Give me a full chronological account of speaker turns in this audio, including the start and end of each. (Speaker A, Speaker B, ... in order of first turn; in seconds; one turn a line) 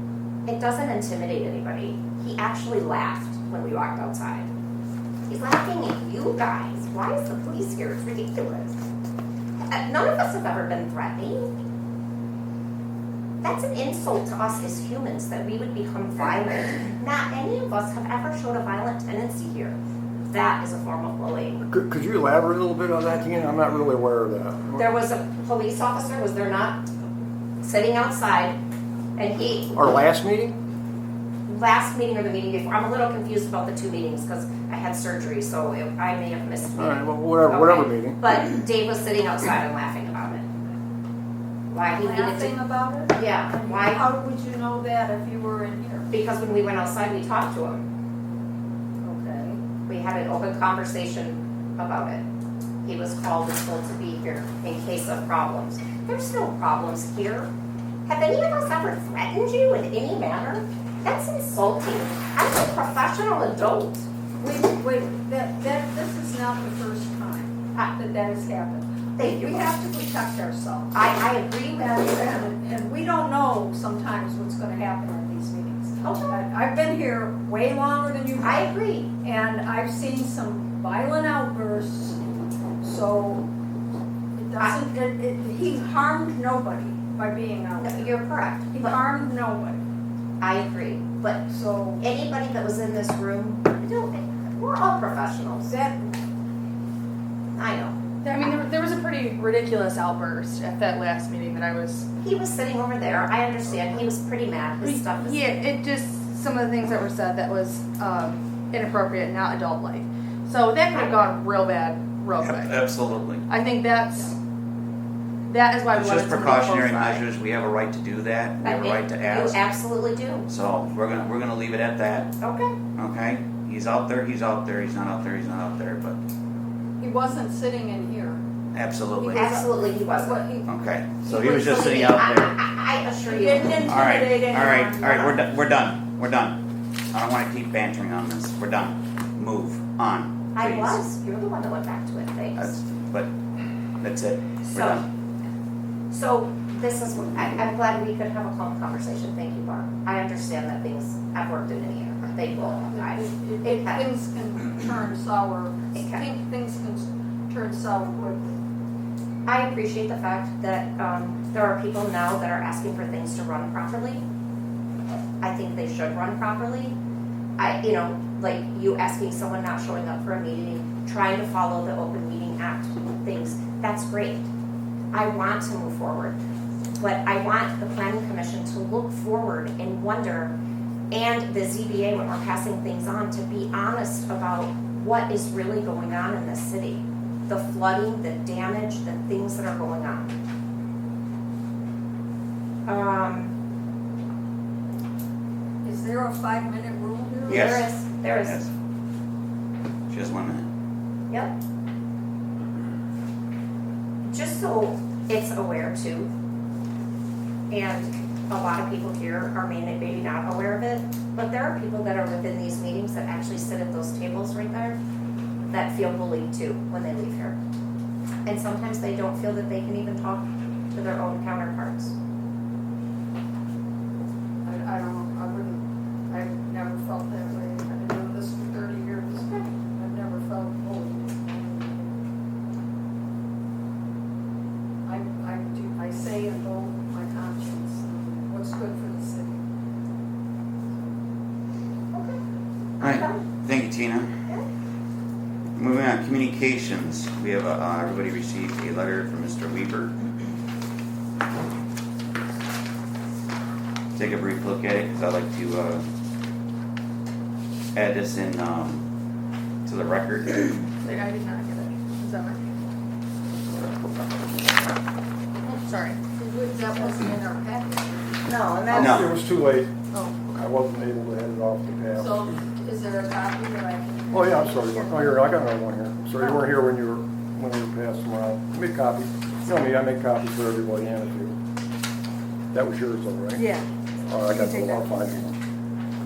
Speaker A: 0.5-4.5
Speaker A: 5.3-8.8
Speaker A: 9.7-11.5
Speaker A: 13.4-19.8
Speaker A: 20.3-21.6
Speaker B: 21.7-24.8
Speaker A: 24.8-26.9
Speaker A: 27.6-28.6
Speaker A: 29.2-29.8
Speaker B: 29.7-30.6
Speaker A: 31.5-40.5
Speaker B: 36.8-38.2
Speaker A: 41.7-42.5
Speaker C: 42.0-46.0
Speaker A: 43.1-44.0
Speaker A: 46.1-47.9
Speaker C: 49.0-49.6
Speaker A: 49.9-52.2
Speaker A: 52.8-57.5
Speaker A: 58.1-64.1
Speaker C: 64.4-71.0
Speaker A: 69.2-69.7
Speaker A: 70.9-72.4
Speaker C: 71.8-78.7
Speaker A: 76.0-76.4
Speaker A: 78.4-79.1
Speaker C: 79.2-82.2
Speaker C: 82.8-83.5
Speaker C: 84.3-89.8
Speaker A: 87.8-89.0
Speaker A: 90.4-91.5
Speaker C: 91.5-92.0
Speaker A: 92.0-95.7
Speaker C: 95.7-96.1
Speaker A: 97.5-97.9
Speaker D: 98.2-102.1
Speaker A: 102.2-105.5
Speaker D: 104.8-112.8
Speaker A: 110.9-111.2
Speaker E: 112.4-113.4
Speaker D: 113.5-114.3
Speaker D: 115.5-117.2
Speaker E: 115.9-119.6
Speaker A: 118.6-120.5
Speaker E: 120.5-122.3
Speaker A: 122.4-122.8
Speaker E: 123.0-126.2
Speaker C: 127.0-128.4
Speaker E: 128.7-129.5
Speaker C: 129.2-131.7
Speaker A: 129.3-130.5
Speaker E: 130.7-132.5
Speaker A: 131.3-134.0
Speaker C: 133.3-135.3
Speaker E: 133.8-136.6
Speaker E: 137.1-141.0
Speaker A: 140.5-142.7
Speaker E: 142.6-143.3
Speaker E: 144.0-145.0
Speaker A: 144.7-145.0
Speaker A: 146.1-154.0
Speaker C: 152.7-158.5
Speaker A: 155.9-156.2
Speaker A: 159.4-164.2
Speaker A: 165.4-167.0
Speaker A: 167.6-174.5
Speaker A: 175.1-176.4
Speaker A: 176.9-180.5
Speaker A: 181.1-190.3
Speaker A: 192.8-193.5
Speaker C: 195.8-197.7
Speaker A: 197.4-198.6
Speaker E: 197.5-197.9
Speaker E: 198.4-198.7
Speaker E: 200.1-200.7
Speaker A: 204.2-206.3
Speaker A: 207.7-215.0
Speaker A: 215.7-217.6
Speaker A: 218.4-222.2
Speaker C: 224.6-232.2
Speaker C: 235.0-239.6
Speaker A: 242.1-242.4
Speaker E: 243.0-244.3
Speaker A: 243.0-243.4
Speaker E: 245.8-250.2
Speaker E: 254.1-256.0
Speaker E: 257.9-259.0
Speaker E: 259.9-260.8
Speaker D: 261.0-262.6
Speaker D: 265.7-266.3
Speaker C: 266.3-268.4
Speaker A: 268.4-269.2
Speaker B: 268.9-269.9
Speaker E: 268.9-269.3
Speaker D: 270.1-270.4
Speaker B: 270.5-272.4
Speaker C: 272.2-275.4
Speaker B: 274.3-281.6
Speaker B: 282.7-283.6
Speaker B: 284.2-285.6
Speaker D: 284.5-285.4